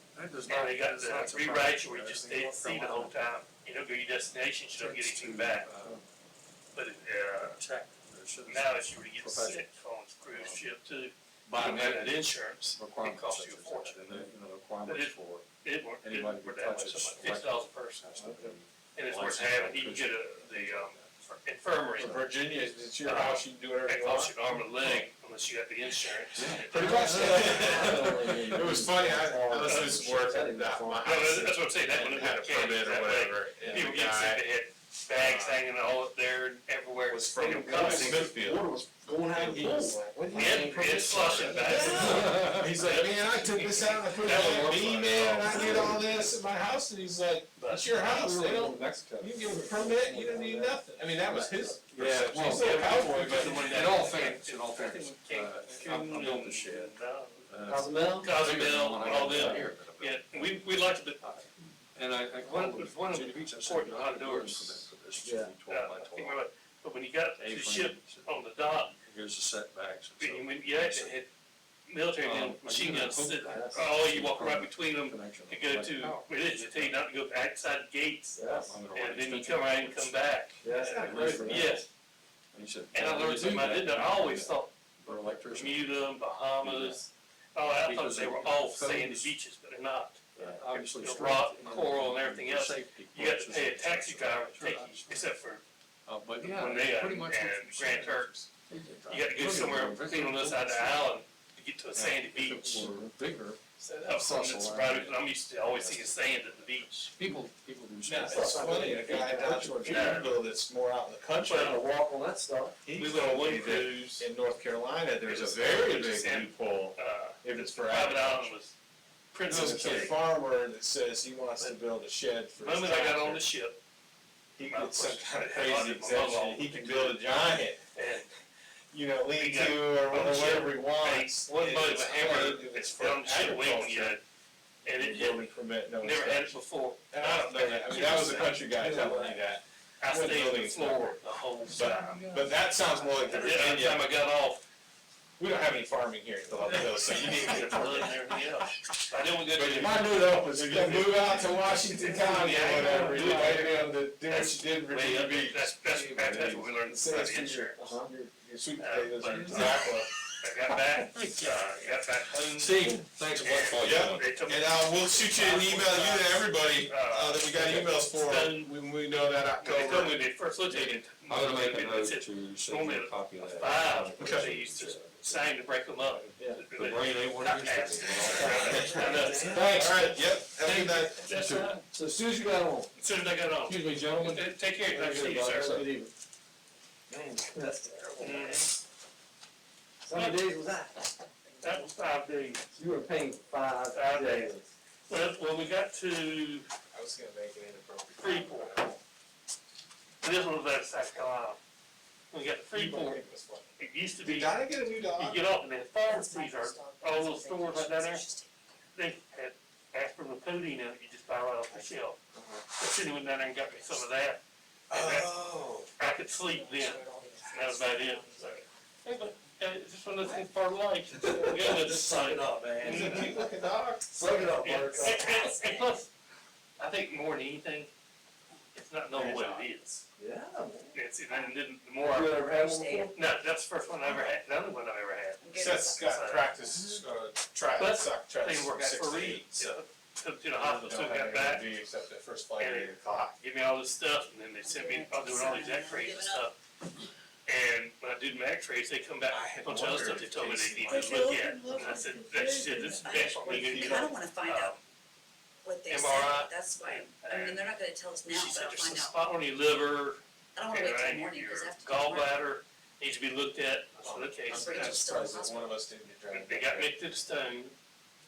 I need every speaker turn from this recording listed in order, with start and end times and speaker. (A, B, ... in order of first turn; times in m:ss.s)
0:00.1-0:03.2 A
0:00.4-0:05.7 B
0:04.8-0:06.0 A
0:06.7-0:07.6 B
0:07.4-0:09.6 A
0:08.4-0:14.0 B
0:10.3-0:10.7 A
0:11.5-0:15.5 A
0:14.8-0:18.4 B
0:16.0-0:21.2 A
0:18.2-0:18.6 C
0:19.0-0:22.2 B
0:22.0-0:22.2 A
0:22.0-0:24.4 D
0:23.0-0:27.8 B
0:24.7-0:25.0 A
0:26.4-0:28.4 A
0:26.4-0:34.4 D
0:26.7-0:31.2 C
0:29.6-0:30.0 B
0:31.0-0:38.3 B
0:35.1-0:35.6 D
0:37.1-0:38.7 D
0:37.4-0:42.2 C
0:39.3-0:53.6 D
0:40.3-0:45.8 B
0:42.1-0:42.7 A
0:44.1-0:46.1 A
0:47.7-0:52.0 C
0:51.9-1:06.4 A
0:52.4-0:57.4 B
0:57.7-0:58.4 C
0:58.2-1:01.4 B
0:59.1-0:59.7 C
1:02.4-1:04.9 B
1:05.2-1:05.5 C
1:05.7-1:08.9 B
1:07.4-1:11.2 A
1:10.2-1:11.3 B
1:11.9-1:21.9 B
1:12.2-1:17.0 A
1:13.5-1:13.9 C
1:18.4-1:18.8 C
1:18.4-1:20.3 A
1:20.6-1:21.8 C
1:20.9-1:21.8 A
1:22.5-1:27.0 A
1:22.9-1:24.7 B
1:25.5-1:35.6 B
1:27.6-1:29.3 A
1:30.4-1:35.3 A
1:36.0-1:41.1 A
1:36.4-1:38.4 B
1:39.1-1:42.9 B
1:41.9-1:46.3 A
1:42.8-1:43.1 C
1:43.8-1:47.1 B
1:47.1-1:48.9 A
1:48.1-1:51.8 D
1:48.2-1:50.2 C
1:49.8-1:50.4 B
1:51.5-1:51.8 B
1:51.5-1:52.8 C
1:52.8-1:58.5 D
1:53.0-1:54.3 B
1:55.2-1:58.7 B
1:59.3-2:00.2 B
1:59.5-2:00.1 A
1:59.5-2:03.4 D
2:02.6-2:03.8 B
2:04.6-2:07.8 D
2:04.7-2:07.3 B
2:08.0-2:08.3 B
2:08.9-2:14.2 D
2:09.4-2:14.2 B
2:14.8-2:18.7 B
2:15.0-2:16.6 D
2:17.1-2:24.1 D
2:18.2-2:19.4 C
2:20.0-2:22.3 B
2:23.2-2:24.6 B
2:25.4-2:28.4 D
2:26.7-2:37.8 B
2:29.5-2:35.8 D
2:33.2-2:33.6 C
2:35.9-2:36.6 A
2:36.1-2:36.4 C
2:36.8-2:40.1 D
2:37.8-2:38.1 C
2:38.8-2:48.8 B
2:42.4-2:44.4 A
2:43.8-2:51.1 D
2:47.6-2:47.9 A
2:49.6-3:01.9 B
2:51.3-2:59.0 A
2:54.2-2:54.5 D
2:56.4-2:56.6 C
2:58.3-2:59.9 C
2:58.4-3:01.2 D
3:01.3-3:01.8 A
3:01.9-3:02.9 C
3:02.9-3:05.9 B
3:03.7-3:06.1 C
3:07.1-3:08.7 C
3:08.2-3:08.7 B
3:10.0-3:11.2 C
3:10.1-3:10.4 B
3:11.4-3:11.9 E
3:11.6-3:12.6 B
3:12.7-3:14.7 C
3:13.9-3:14.6 B
3:15.1-3:16.7 B
3:16.9-3:19.0 D
3:18.2-3:18.8 B
3:20.2-3:21.6 B
3:22.3-3:23.2 B
3:22.7-3:25.4 D
3:23.8-3:24.6 B
3:25.2-3:28.2 B
3:26.0-3:28.6 E
3:29.0-3:32.2 B
3:32.3-3:32.6 D
3:32.8-3:35.3 B
3:34.9-3:35.9 D
3:36.0-3:43.4 B
3:36.0-3:38.7 E
3:41.2-3:43.5 C
3:42.8-3:44.6 D
3:44.2-3:45.5 C
3:44.2-3:46.1 B
3:45.0-3:46.0 E
3:46.8-3:47.9 B
3:48.7-3:50.0 B
3:49.1-3:49.7 D
3:50.2-3:51.0 C
3:50.9-3:52.4 B
3:51.3-3:51.6 E
3:52.0-3:53.2 C
3:52.4-3:53.3 E
3:53.1-3:56.5 B
3:54.0-3:54.4 E
3:55.4-3:56.9 E
3:55.5-3:59.8 D
3:57.8-4:01.7 B
4:00.6-4:03.4 D
4:02.6-4:06.6 B
4:04.6-4:06.5 E
4:07.4-4:14.8 B
4:09.3-4:12.2 D
4:10.9-4:14.8 E
4:12.8-4:14.2 D
4:15.6-4:19.2 E
4:15.9-4:17.7 B
4:18.3-4:25.1 B
4:20.6-4:22.4 E
4:24.0-4:27.0 D
4:24.5-4:25.8 E
4:26.3-4:27.8 B